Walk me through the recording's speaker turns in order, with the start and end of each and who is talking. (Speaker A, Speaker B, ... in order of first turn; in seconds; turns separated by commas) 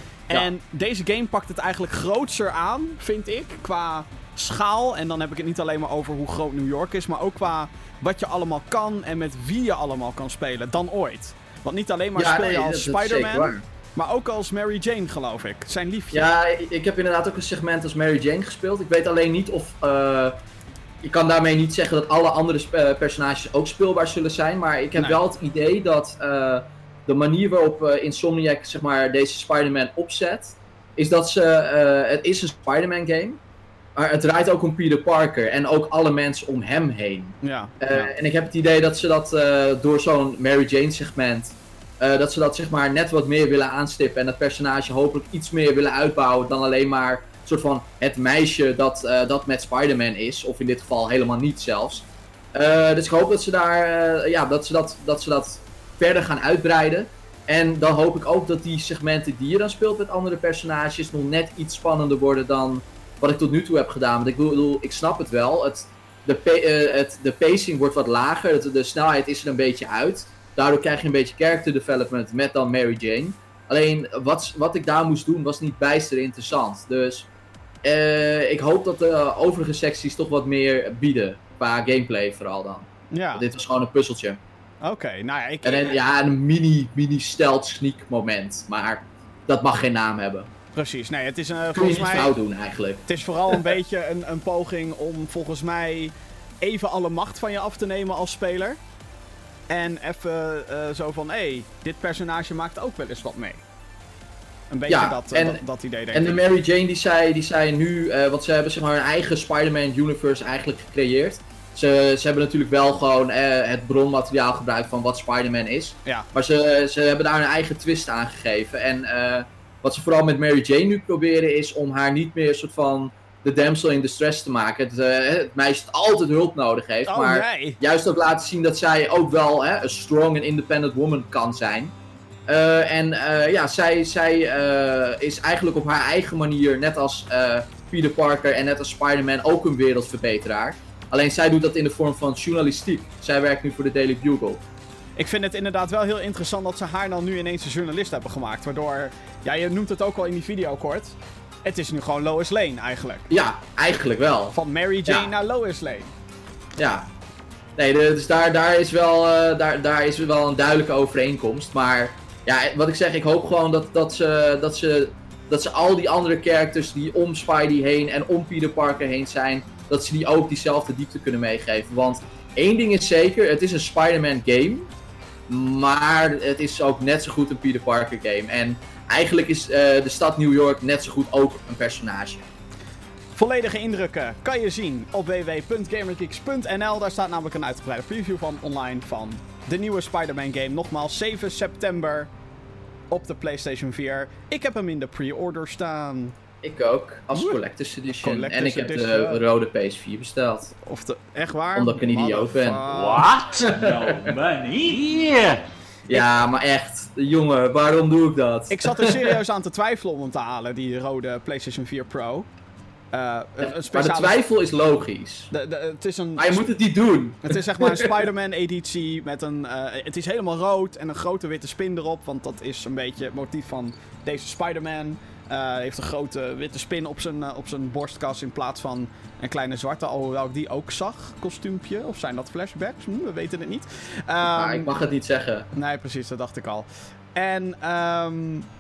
Speaker A: 0.3-16.2, Speaker B: 12.2-13.6, Speaker B: 16.1-20.4, Speaker B: 21.0-33.4, Speaker A: 24.9-25.2, Speaker B: 33.9-77.3, Speaker A: 37.4-38.1, Speaker B: 77.8-84.4, Speaker A: 83.1-83.4, Speaker A: 84.8-86.0, Speaker B: 85.6-90.5, Speaker A: 90.7-92.3, Speaker B: 91.7-93.7, Speaker A: 93.1-98.8, Speaker A: 99.7-103.6, Speaker A: 104.7-106.4, Speaker B: 104.9-105.6, Speaker B: 106.1-131.9, Speaker A: 127.1-127.8, Speaker B: 132.5-144.6, Speaker A: 145.2-153.3, Speaker B: 153.3-155.3, Speaker A: 154.5-156.1, Speaker B: 156.8-157.1, Speaker B: 157.8-174.9, Speaker B: 175.5-182.5, Speaker A: 183.3-192.3, Speaker A: 193.1-196.3, Speaker B: 196.6-200.7, Speaker A: 198.1-199.4, Speaker A: 200.8-203.3, Speaker B: 201.7-202.9, Speaker C: 202.9-205.6, Speaker B: 203.6-204.4, Speaker B: 206.1-209.4, Speaker A: 208.7-212.5, Speaker A: 213.1-214.4, Speaker B: 213.6-215.5, Speaker A: 215.5-216.6, Speaker B: 216.4-218.2, Speaker A: 217.4-234.9, Speaker B: 234.5-235.7, Speaker A: 235.7-238.7